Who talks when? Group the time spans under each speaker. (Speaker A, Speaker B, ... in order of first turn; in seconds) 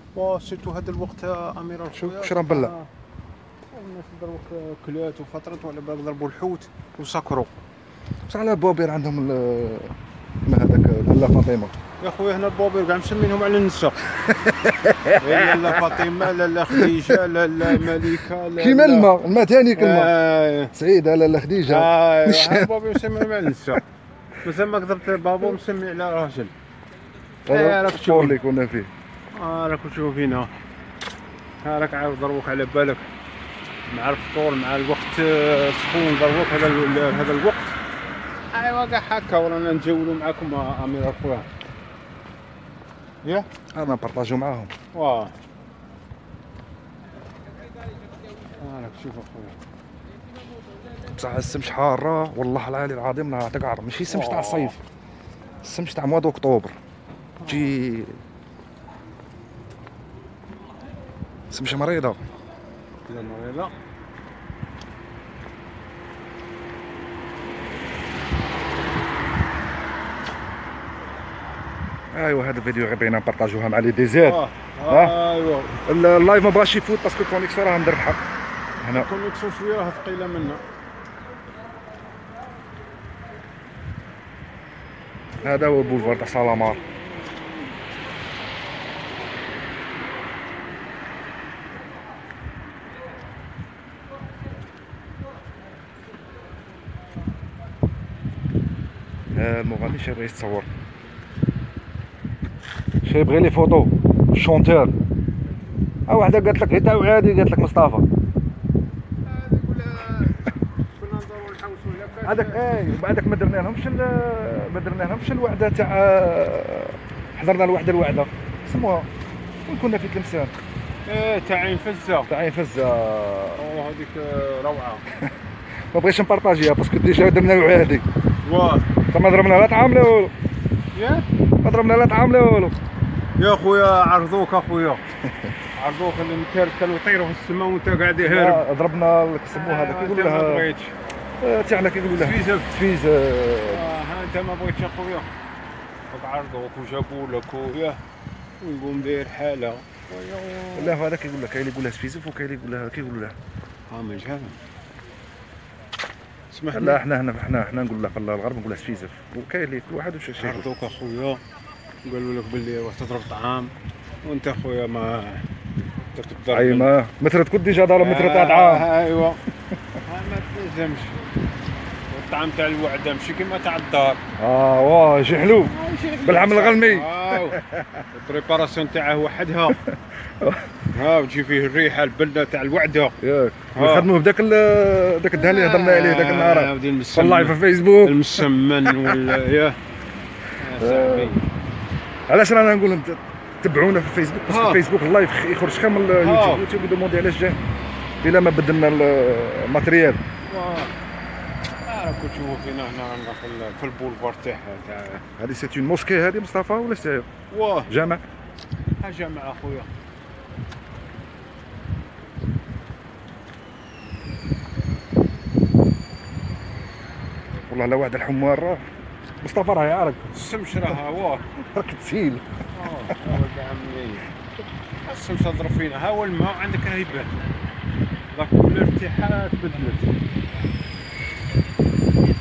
Speaker A: 0.1-2.9, 3.7-7.5, 12.0-14.1, 15.2-19.1, 19.7-20.7, 21.7-23.8, 24.4-26.5, 27.5-28.4, 29.3-30.5, 31.6-33.1, 33.9-37.8, 38.5-41.5, 44.9-45.3, 48.6-49.6, 54.1-54.8, 57.4-57.8, 63.1-63.7, 74.2-75.8, 78.9-80.6, 109.2-112.7, 121.0-122.3, 123.6-125.0, 128.4-128.9, 130.9-131.2, 133.4-135.0, 135.7-138.6, 139.5-140.9, 142.1-142.7, 143.7-145.3, 146.1-148.0, 148.6-151.0, 153.9-154.6, 156.5-157.0, 160.4-161.4, 162.0-163.7, 164.2-165.4, 166.1-166.9, 168.0-169.4, 170.1-171.2, 172.1-174.2, 175.6-177.6, 178.1-179.8, 180.9-183.2, 183.7-184.1, 185.3-189.8, 190.6-191.5, 194.5-194.8, 196.2-196.6, 200.4-200.9, 201.8-205.2, 207.5-207.9, 209.0-209.9, 220.3-221.4, 222.7-224.3, 225.0-227.3, 228.3-230.2
Speaker B: 1.9-2.7, 8.3-9.9, 10.4-11.7, 14.3-15.9, 16.7-17.1, 17.7-18.0, 18.6-20.1, 20.7-23.2, 27.5-28.9, 43.7-44.7, 51.1-54.7, 55.6-56.8, 57.4-58.2, 61.5-62.2, 72.1-75.1, 75.8-78.2, 78.8-79.1, 85.4-86.8, 99.3-100.7, 103.0-104.9, 106.1-108.0, 112.2-119.1, 119.7-120.5, 122.3-123.6, 125.9-128.0, 129.1-130.3, 131.6-132.8, 138.2-140.7, 141.4-143.8, 150.7-153.3, 156.7-160.7, 166.5-168.9, 174.4-178.0, 179.7-180.7, 183.2-189.2, 190.8-191.3, 192.3-197.6, 198.2-200.2, 205.4-207.3, 207.9-208.2, 217.7-218.8, 219.4-220.3, 221.6-222.4